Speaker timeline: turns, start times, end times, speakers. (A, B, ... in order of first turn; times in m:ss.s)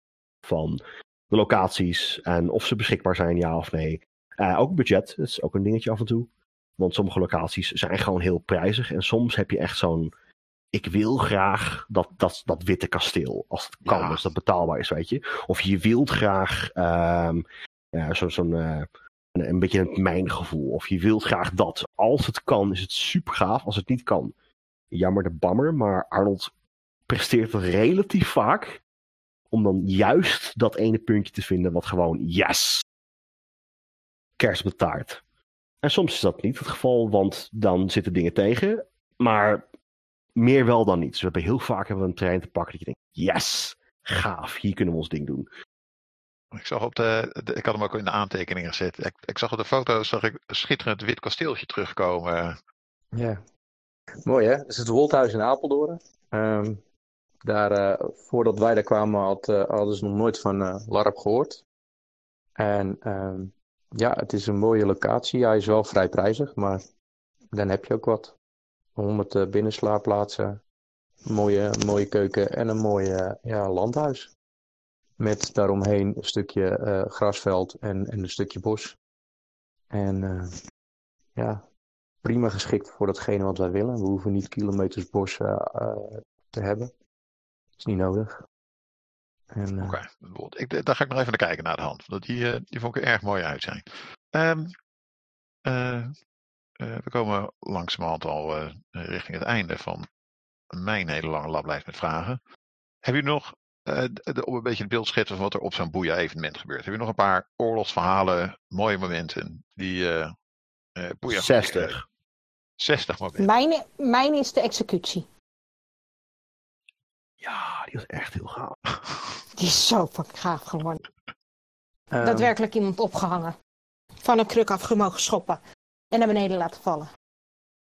0:00.4-0:10.1 A
0:10.7-0:24.3 A
0:13.8-0:14.2 B
0:24.9-0:26.5 A
0:27.1-0:28.8 A
0:29.5-0:32.8 A
0:34.4-0:35.2 A
0:35.8-0:39.6 A
0:40.4-0:45.5 A
0:46.5-0:52.6 B
0:53.1-0:53.4 C
0:54.2-0:56.8 C
0:57.4-1:01.6 C
1:02.6-1:06.8 C
1:07.5-1:08.3 C
1:09.0-1:10.6 C
1:11.3-1:14.3 C
1:15.2-1:19.0 C
1:19.9-1:20.6 C
1:21.4-1:21.6 C
1:22.2-1:26.9 C
1:27.8-1:28.4 C
1:29.5-1:30.0 C
1:29.8-1:34.8 B
1:35.7-1:36.1 B
1:36.8-1:40.1 B
1:40.7-1:42.4 B
1:43.0-1:50.3 B
1:51.0-1:52.0 B
1:51.3-1:52.0 A
1:52.8-1:53.5 B
1:53.4-1:55.3 D
1:57.4-1:58.8 A
1:59.6-2:01.0 D
2:02.1-2:02.5 C
2:02.2-2:03.6 D
2:04.2-2:05.6 D
2:06.1-2:07.1 D